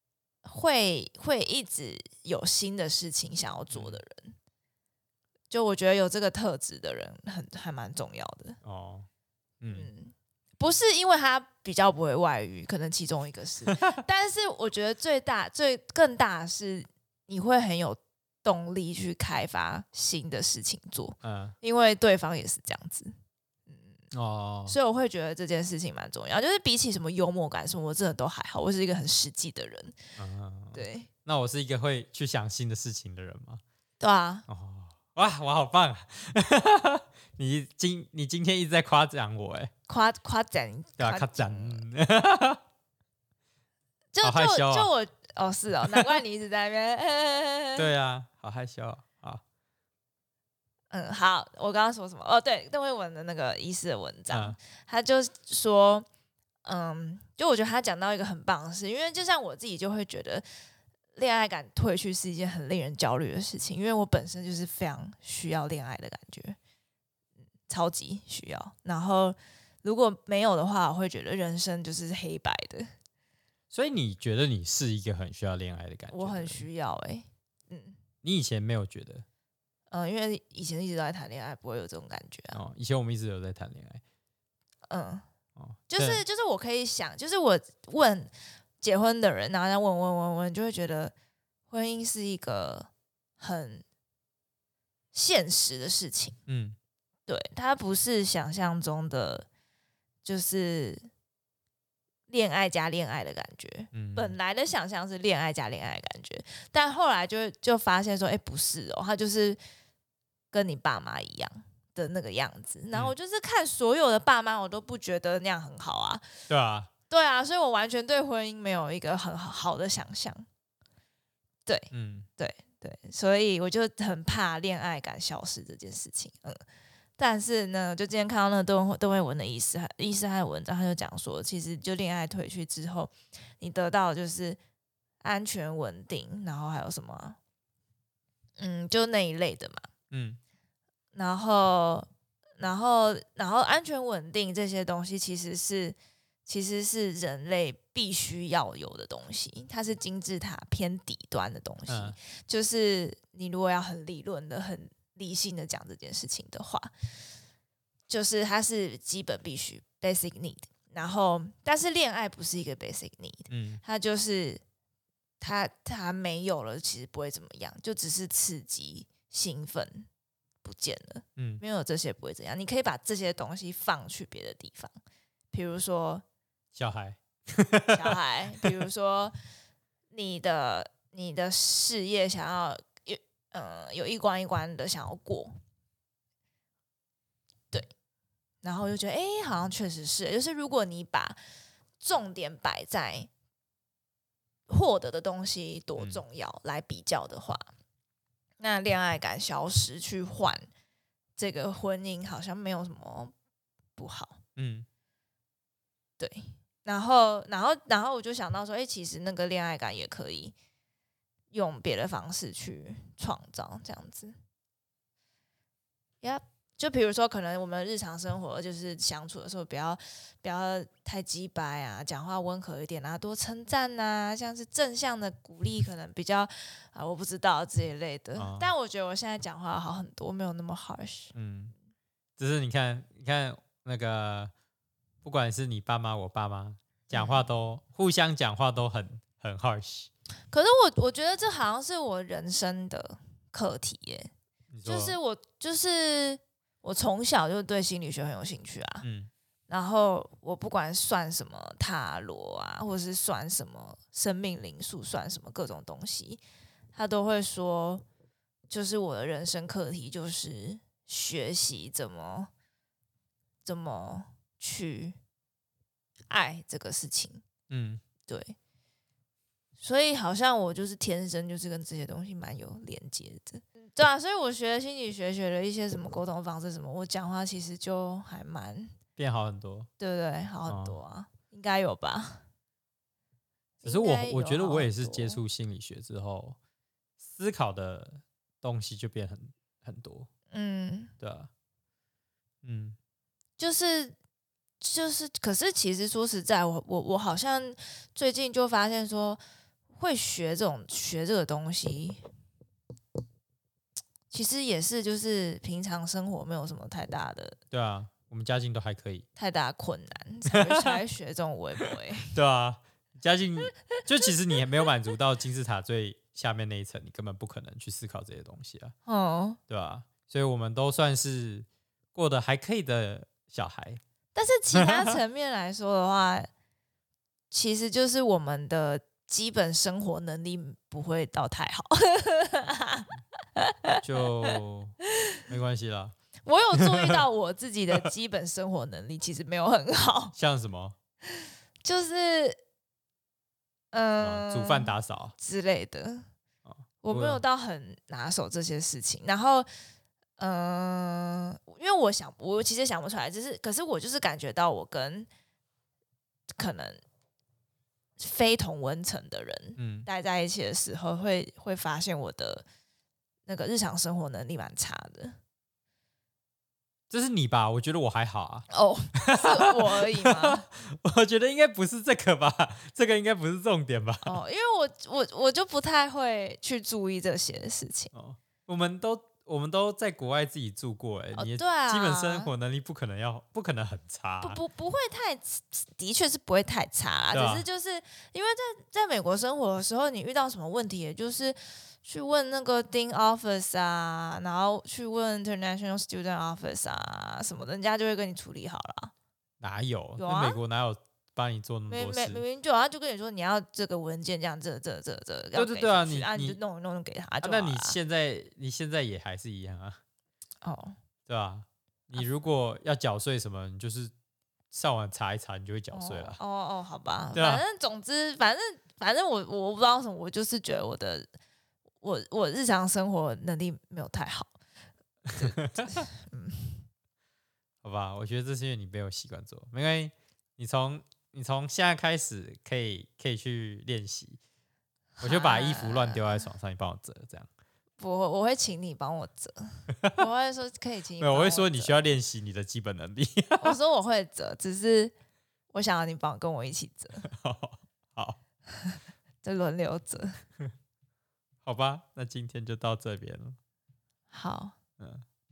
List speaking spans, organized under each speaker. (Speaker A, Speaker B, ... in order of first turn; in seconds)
Speaker A: 0.4-4.3, 5.5-8.6, 9.7-23.1, 23.7-23.9, 24.7-30.0, 30.7-31.1, 34.0-34.5, 39.9-41.8, 44.1-47.9, 50.9-56.1, 56.6-60.5, 61.2-66.6, 67.7-72.9, 76.1-78.0, 79.9-82.6, 84.9-85.2, 85.9-91.1, 91.7-92.9, 93.4-93.8, 95.1-96.4, 97.3-99.5, 100.2-101.1, 102.3-109.6, 110.5-116.2, 117.1-120.5, 121.7-126.6, 127.2-134.6, 135.2-137.4, 138.6-139.9, 141.2-142.1, 142.6-146.0, 146.5-156.9, 158.1-164.6, 165.4-170.1, 170.6-174.9, 175.5-176.2, 177.9-179.3, 180.1-185.5, 188.6-191.4, 192.0-193.3, 194.7-197.7, 198.6-200.7, 201.4-203.3, 204.0-204.4, 206.2-210.6, 211.5-214.4, 216.2-231.3, 237.1-237.5, 240.5-244.3, 244.8-249.1, 249.7-256.4, 256.9-258.0, 258.7-262.5, 263.6-265.2, 266.3-267.4, 268.3-268.6, 269.8-279.0, 280.0-282.4, 283.8-285.4, 290.5-291.1, 293.6-294.1, 294.8-299.4, 300.0-302.2, 304.3-307.6, 309.4-312.4, 319.1-319.6, 324.4-326.5, 327.5-334.6, 336.4-340.3, 341.8-342.6, 343.9-346.2, 347.0-349.7, 350.4-355.3, 356.6-357.0, 358.2-362.6, 363.5-365.4, 368.7-370.7, 374.2-378.1, 381.4-382.5, 384.4-399.1, 400.2-400.6, 401.9-408.0, 410.6-411.0, 415.9-421.3, 422.0-424.5, 425.4-426.9, 435.2-436.4, 438.0-442.1, 443.6-445.1, 445.7-447.3, 448.7-450.4, 454.3-454.8
Speaker B: 3.7-4.0, 8.6-9.1, 9.6-9.9, 21.2-21.6, 24.1-24.8, 30.2-33.6, 34.5-39.7, 41.0-42.6, 44.2-44.9, 47.8-49.4, 54.3-54.6, 73.7-76.6, 78.2-79.2, 82.5-84.0, 85.6-86.2, 96.5-96.8, 103.9-104.4, 116.5-116.9, 121.9-122.3, 140.1-140.4, 151.9-152.2, 163.5-163.8, 171.4-171.6, 176.8-178.8, 196.0-196.2, 204.6-204.9, 228.4-228.7, 231.3-231.7, 232.4-234.5, 235.2-240.1, 244.7-245.2, 249.0-249.3, 267.7-268.0, 279.2-279.9, 280.7-281.0, 283.8-286.6, 287.2-290.3, 291.2-291.5, 292.6-293.0, 307.7-309.3, 310.5-310.9, 311.9-318.9, 319.7-324.0, 324.8-325.2, 334.0-336.1, 336.8-337.2, 340.4-341.0, 344.2-345.4, 346.6-347.4, 359.8-360.1, 367.1-374.4, 378.1-384.6, 387.3-387.7, 399.6-402.4, 405.6-406.6, 407.4-410.0, 411.3-414.1, 414.7-416.4, 417.4-417.6, 425.3-426.0, 427.8-434.4, 435.2-437.5, 441.2-443.8, 447.2-448.4, 451.6-453.6, 455.0-455.2